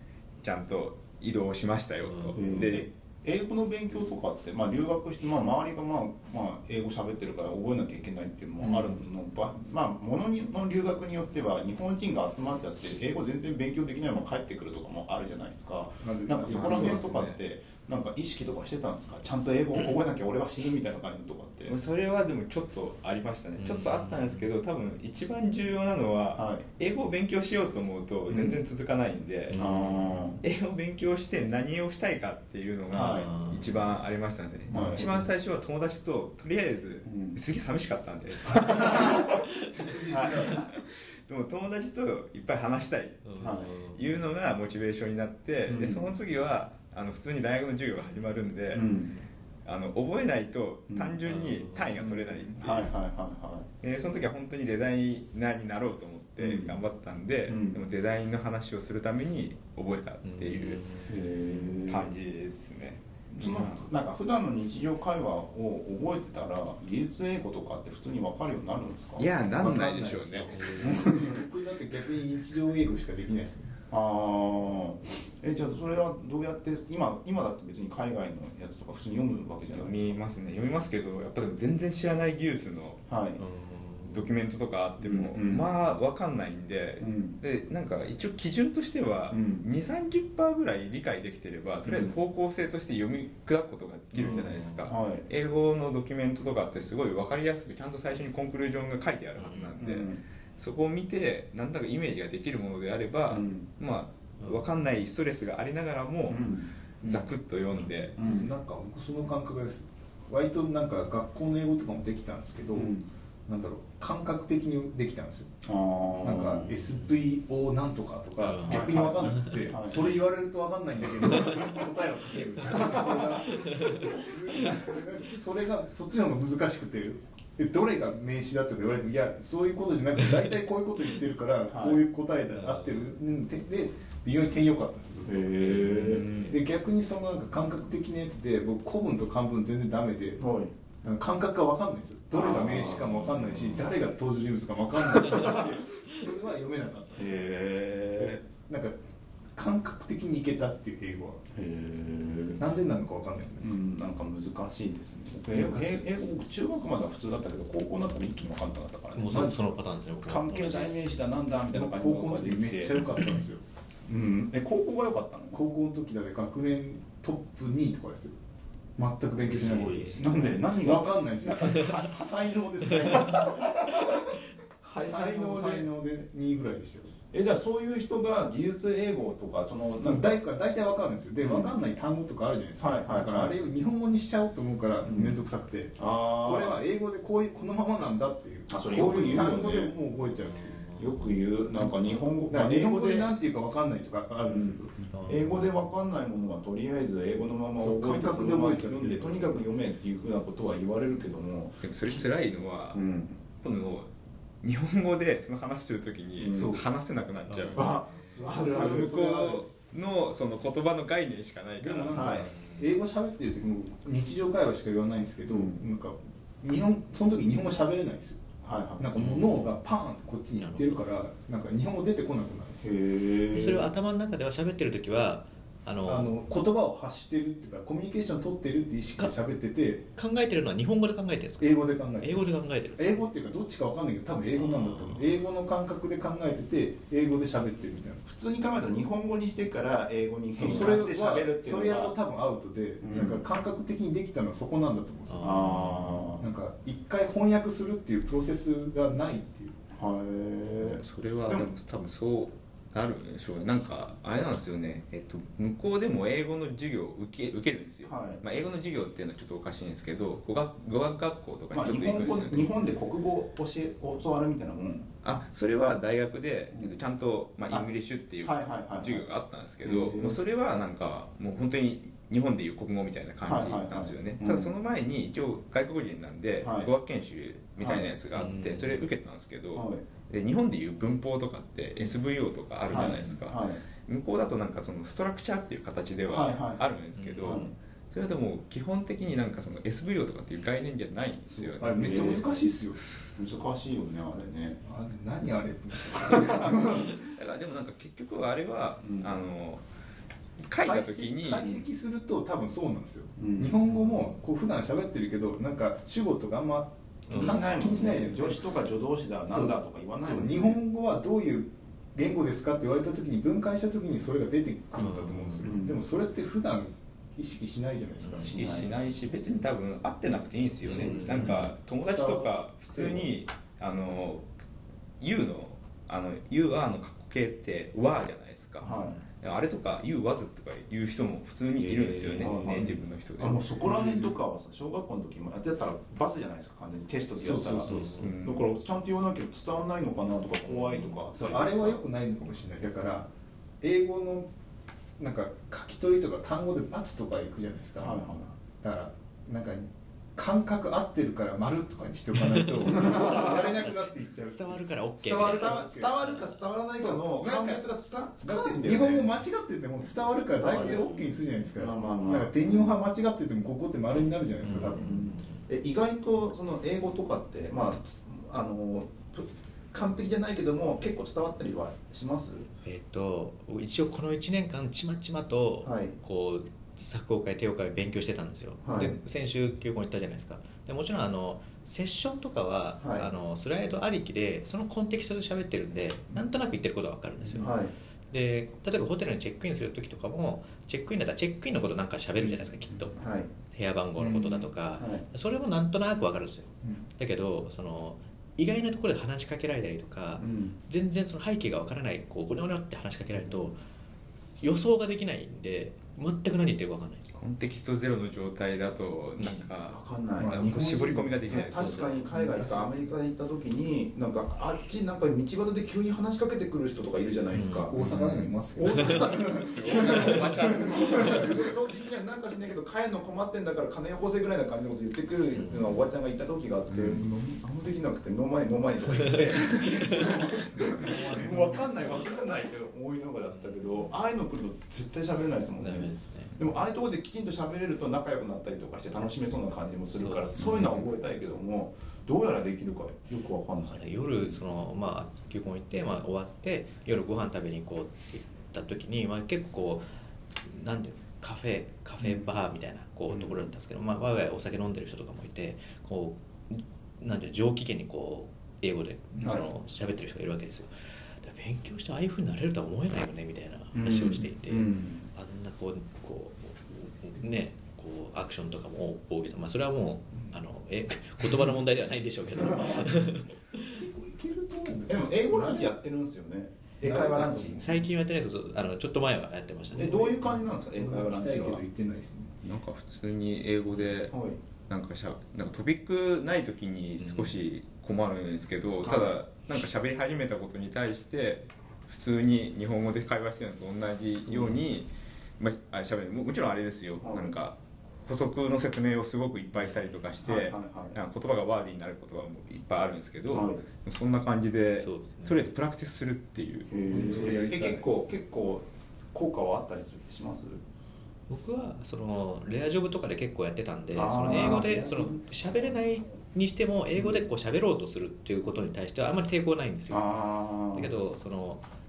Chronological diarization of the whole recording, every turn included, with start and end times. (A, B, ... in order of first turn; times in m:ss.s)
0:00.4-0:02.9 A
0:02.0-0:02.7 B
0:02.4-0:21.7 C
0:16.0-0:17.1 D
0:16.4-0:17.4 A
0:21.7-0:29.6 A
0:23.6-0:24.5 B
0:26.3-0:26.6 C
0:28.3-0:28.6 C
0:29.5-0:30.3 B
0:29.6-0:30.4 C
0:30.4-0:39.4 A
0:32.9-0:33.3 C
0:32.9-0:33.9 B
0:34.7-0:35.0 C
0:35.0-0:35.2 B
0:37.0-0:37.4 C
0:38.6-0:40.6 D
0:40.1-0:43.4 A
0:40.1-0:40.6 C
0:43.2-0:44.0 B
0:43.4-0:43.7 C
0:43.9-0:48.9 A
0:45.7-0:46.1 C
0:48.7-0:49.1 C
0:49.6-0:52.9 A
0:50.9-0:51.2 C
0:51.2-0:52.0 B
0:52.0-0:53.7 C
0:53.8-1:00.8 A
0:56.4-0:56.8 C
0:57.5-0:57.8 C
1:00.2-1:01.7 B
1:01.1-1:02.1 C
1:01.8-1:03.8 A
1:03.3-1:09.3 C
1:09.2-1:11.4 A
1:09.4-1:13.8 D
1:10.8-1:11.2 C
1:13.9-1:20.2 C
1:19.7-1:23.0 A
1:23.1-1:23.4 C
1:23.4-1:24.3 B
1:24.1-1:46.5 A
1:25.0-1:25.7 C
1:27.0-1:27.4 C
1:29.3-1:29.6 C
1:31.8-1:32.1 C
1:34.1-1:34.9 B
1:34.2-1:35.3 C
1:39.4-1:39.8 B
1:39.8-1:40.2 C
1:43.3-1:43.7 C
1:46.3-1:46.7 C
1:47.0-1:48.1 A
1:47.0-1:47.3 D
1:48.2-1:48.5 C
1:48.2-1:52.9 D
1:52.7-1:53.1 C
1:53.5-1:55.5 D
1:55.6-1:56.7 C
1:56.2-2:15.5 D
1:56.5-1:57.2 B
1:58.4-1:59.5 B
1:58.7-2:00.2 C
2:02.7-2:03.1 C
2:11.7-2:12.0 C
2:12.5-2:13.2 B
2:15.3-2:16.2 C
2:15.6-2:16.4 B
2:15.7-2:16.6 A
2:16.3-2:20.4 D
2:20.4-2:20.7 C
2:21.0-2:27.4 D
2:22.3-2:23.8 C
2:22.9-2:23.7 A
2:27.2-2:28.4 C
2:28.2-2:29.0 D
2:29.5-2:31.4 D
2:31.5-2:32.6 C
2:32.6-2:33.8 D
2:33.6-2:39.6 C
2:35.5-2:36.0 D
2:39.1-2:41.2 B
2:39.3-2:39.7 D
2:40.2-2:43.0 C
2:41.7-2:43.6 D
2:44.0-2:45.6 C
2:45.5-2:48.3 D
2:49.0-2:54.0 D
2:49.4-2:50.2 B
2:49.4-2:52.3 C
2:52.8-2:54.1 C
2:54.8-2:55.9 C
2:55.0-2:57.1 D
2:57.3-3:00.3 C
3:00.0-3:10.8 D
3:01.4-3:01.8 C
3:02.8-3:03.6 C
3:05.0-3:05.4 C
3:06.0-3:06.8 C
3:08.7-3:09.9 C
3:10.2-3:11.4 B
3:11.0-3:13.4 C
3:11.7-3:15.1 D
3:14.5-3:21.9 C
3:15.1-3:15.7 B
3:17.8-3:19.7 D
3:21.8-3:23.0 A
3:22.9-3:23.4 C
3:23.6-3:24.1 A
3:24.6-3:27.9 A
3:26.4-3:26.7 C
3:26.5-3:26.9 D
3:27.4-3:28.5 B
3:27.8-3:29.1 C
3:28.3-3:29.7 D
3:28.7-3:32.4 A
3:31.8-3:38.4 D
3:32.1-3:32.5 C
3:32.3-3:32.9 B
3:35.5-3:35.8 C
3:38.6-3:39.1 C
3:39.0-3:42.8 D
3:39.1-3:39.8 B
3:40.5-3:41.0 B
3:42.8-3:43.9 C
3:43.5-3:46.3 B
3:46.0-3:50.0 D
3:50.1-3:53.3 B
3:51.6-3:58.2 D
3:54.5-3:55.3 B
3:58.2-4:02.2 C
4:00.5-4:05.8 D
4:00.6-4:00.9 B
4:03.0-4:03.4 C
4:05.2-4:06.2 B
4:05.4-4:06.4 C
4:06.4-4:09.7 D
4:09.9-4:11.7 C
4:10.8-4:22.7 A
4:18.0-4:18.4 C
4:21.7-4:25.1 C
4:25.2-4:52.6 A
4:28.4-4:29.2 C
4:29.8-4:30.4 C
4:33.4-4:34.7 C
4:36.6-4:36.9 C
4:37.8-4:38.1 C
4:38.3-4:39.0 B
4:39.7-4:40.0 C
4:42.9-4:43.8 C
4:46.2-4:46.9 C
4:47.1-4:47.7 B
4:47.4-4:47.7 C
4:51.6-4:53.0 D
4:51.8-4:52.5 C
4:53.4-4:54.8 C
4:54.8-4:57.1 D
4:56.9-4:59.8 A
4:59.0-4:59.4 C
5:00.6-5:01.8 A
5:00.8-5:08.7 D
5:03.4-5:03.8 C
5:07.3-5:07.6 B
5:07.3-5:10.8 C
5:09.4-5:18.6 D
5:15.0-5:15.8 B
5:15.6-5:16.0 C
5:18.2-5:18.8 B
5:18.4-5:18.9 C
5:18.5-5:24.5 A
5:20.8-5:21.7 B
5:20.9-5:21.5 C
5:21.0-5:21.5 D
5:22.0-5:22.5 D
5:23.0-5:23.2 C
5:25.2-5:34.3 A
5:28.8-5:29.2 C
5:28.9-5:29.2 B
5:31.8-5:42.0 C
5:32.5-5:33.0 D
5:37.4-5:38.3 D
5:37.9-5:38.3 B
5:38.0-5:38.7 A
5:41.3-5:43.3 D
5:43.8-5:44.5 D
5:45.2-5:56.2 D
5:48.0-5:48.5 C
5:52.4-5:56.6 B
5:53.1-5:53.5 C
5:55.2-5:59.3 C
5:56.9-5:57.8 D
5:58.4-6:05.2 D
6:00.5-6:01.1 C
6:00.8-6:01.2 B
6:01.8-6:02.9 C
6:04.6-6:05.6 B
6:04.9-6:12.7 C
6:12.8-6:27.8 B
6:15.8-6:16.1 C
6:18.8-6:19.2 C
6:23.0-6:23.3 C
6:27.6-6:27.9 C
6:28.3-6:33.2 B
6:33.1-6:33.5 C
6:33.7-6:43.8 B
6:34.2-6:35.2 C
6:40.4-6:40.8 C
6:44.6-6:47.3 B
6:47.3-6:52.2 A
6:49.4-6:49.7 B
6:49.9-7:24.6 C
6:50.4-6:53.1 D
6:51.8-6:52.2 B
6:57.5-6:57.9 B
6:57.9-7:01.5 D
6:58.0-7:01.7 A
7:05.5-7:06.0 B
7:06.9-7:07.2 A
7:09.4-7:10.3 B
7:10.9-7:12.3 B
7:10.9-7:11.9 D
7:13.5-7:14.1 B
7:15.7-7:16.6 B
7:20.1-7:21.1 B
7:23.8-7:30.1 B
7:30.6-7:54.0 B
7:32.2-7:32.5 C
7:33.3-7:33.7 C
7:39.4-7:39.7 C
7:43.9-7:45.2 C
7:52.7-7:53.1 D
7:53.8-7:56.0 D
7:55.1-7:57.8 C
7:57.0-7:58.1 D
7:57.6-8:00.3 B
7:59.9-8:01.8 C
8:00.0-8:02.6 D
8:02.6-8:04.3 A
8:04.3-8:04.6 C
8:04.9-8:26.9 A
8:07.2-8:07.6 B
8:17.2-8:17.6 C
8:19.7-8:20.3 B
8:20.4-8:21.2 C
8:23.5-8:23.8 C
8:25.0-8:25.6 B
8:26.9-8:30.8 C
8:27.1-8:28.1 D
8:31.5-8:41.8 B
8:34.1-8:36.0 C
8:37.2-8:37.4 C
8:40.1-8:41.1 C